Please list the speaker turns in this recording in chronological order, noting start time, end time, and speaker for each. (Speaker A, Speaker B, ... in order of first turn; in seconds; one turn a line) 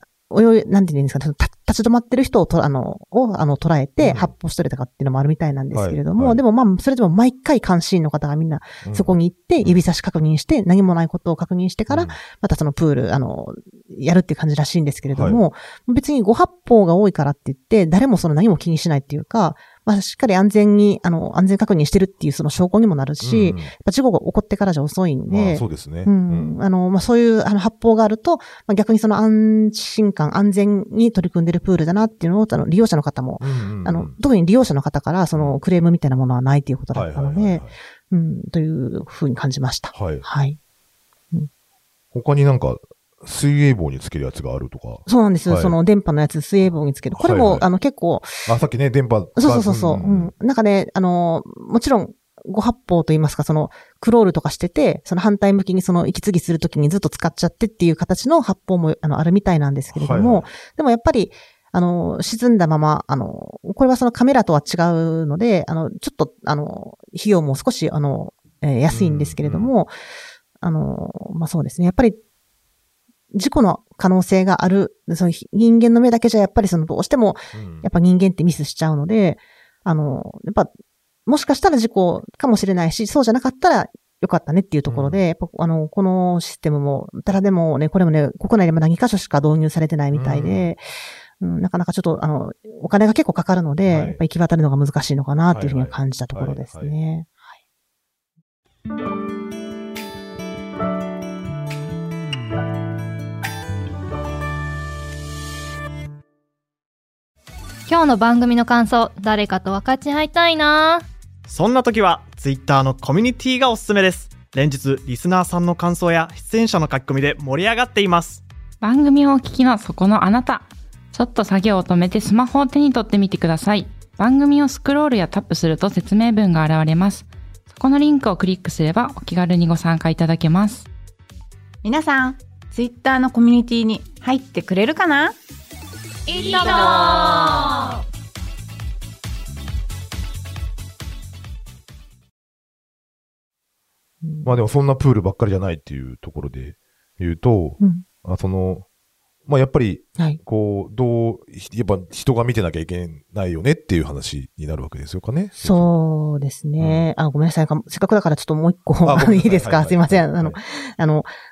Speaker A: 0.3-40.6
Speaker B: 4.0-4.3
Speaker B: 5.7-6.4
Speaker B: 8.8-9.8
Speaker B: 11.9-12.2
Speaker B: 15.1-15.4
Speaker B: 23.2-23.7
Speaker B: 25.3-26.6
Speaker B: 33.4-34.2
Speaker B: 35.4-35.6
Speaker B: 36.9-37.8
Speaker B: 39.9-40.3
Speaker B: 42.1-45.8
Speaker A: 45.1-48.5
Speaker B: 46.6-47.7
Speaker B: 48.5-50.3
Speaker A: 49.4-69.9
Speaker B: 59.9-60.5
Speaker B: 68.9-69.7
Speaker A: 70.6-72.2
Speaker A: 73.3-80.7
Speaker B: 77.5-77.9
Speaker A: 81.3-90.8
Speaker B: 84.9-85.2
Speaker B: 90.1-90.7
Speaker A: 91.4-97.5
Speaker B: 93.8-94.2
Speaker B: 95.5-97.0
Speaker C: 107.9-111.0
Speaker D: 111.5-118.5
Speaker E: 118.8-130.9
Speaker F: 131.8-135.3
Speaker C: 136.3-137.7
Speaker A: 144.2-144.6
Speaker B: 144.4-148.9
Speaker A: 147.8-148.1
Speaker B: 149.5-155.9
Speaker A: 155.6-161.3
Speaker B: 156.8-157.1
Speaker B: 159.0-160.6